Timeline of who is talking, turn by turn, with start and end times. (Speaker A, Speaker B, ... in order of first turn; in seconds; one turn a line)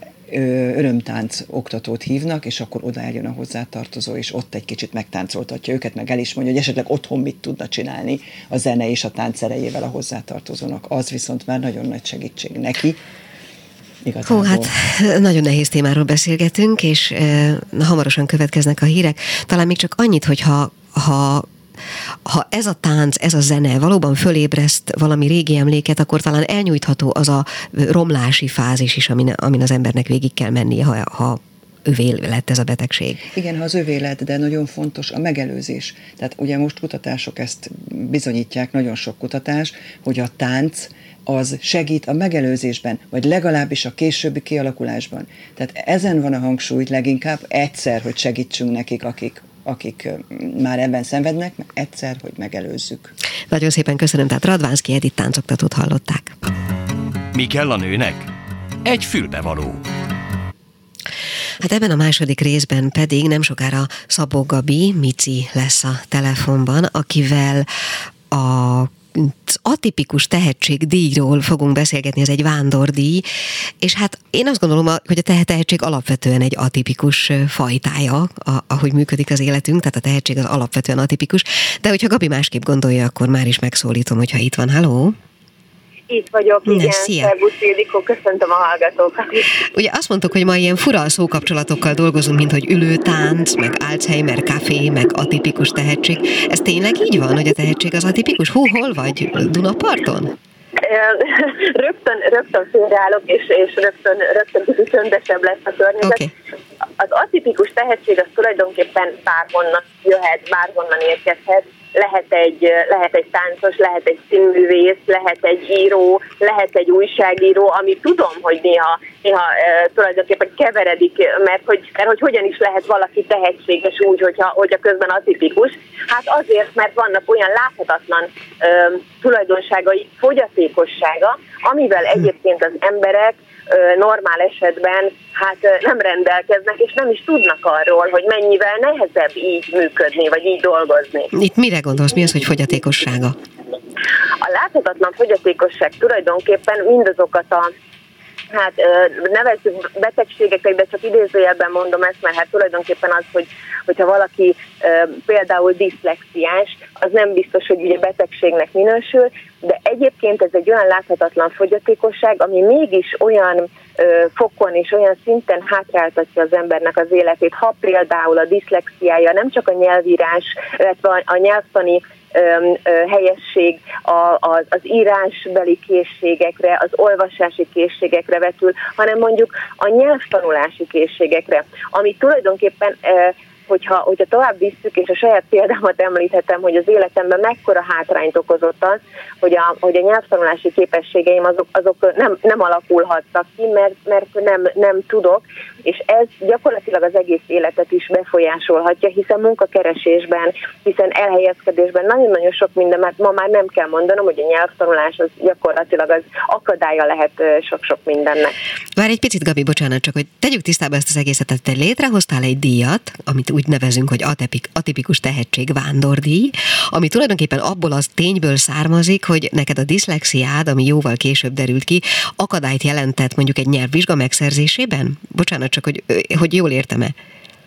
Speaker A: 0.3-13.0
Speaker A: 14.0-14.7
Speaker B: 14.2-21.5
Speaker B: 22.2-33.3
Speaker A: 33.3-53.1
Speaker B: 53.5-56.4
Speaker C: 57.3-58.3
Speaker C: 58.8-59.8
Speaker B: 61.6-67.7
Speaker B: 68.3-73.3
Speaker B: 73.8-85.2
Speaker D: 86.1-89.5
Speaker B: 86.7-87.3
Speaker B: 89.7-100.3
Speaker D: 100.8-106.2
Speaker B: 106.0-106.3
Speaker D: 107.0-141.3
Speaker B: 141.3-143.3
Speaker D: 144.4-147.7
Speaker D: 148.5-208.5
Speaker B: 209.0-227.1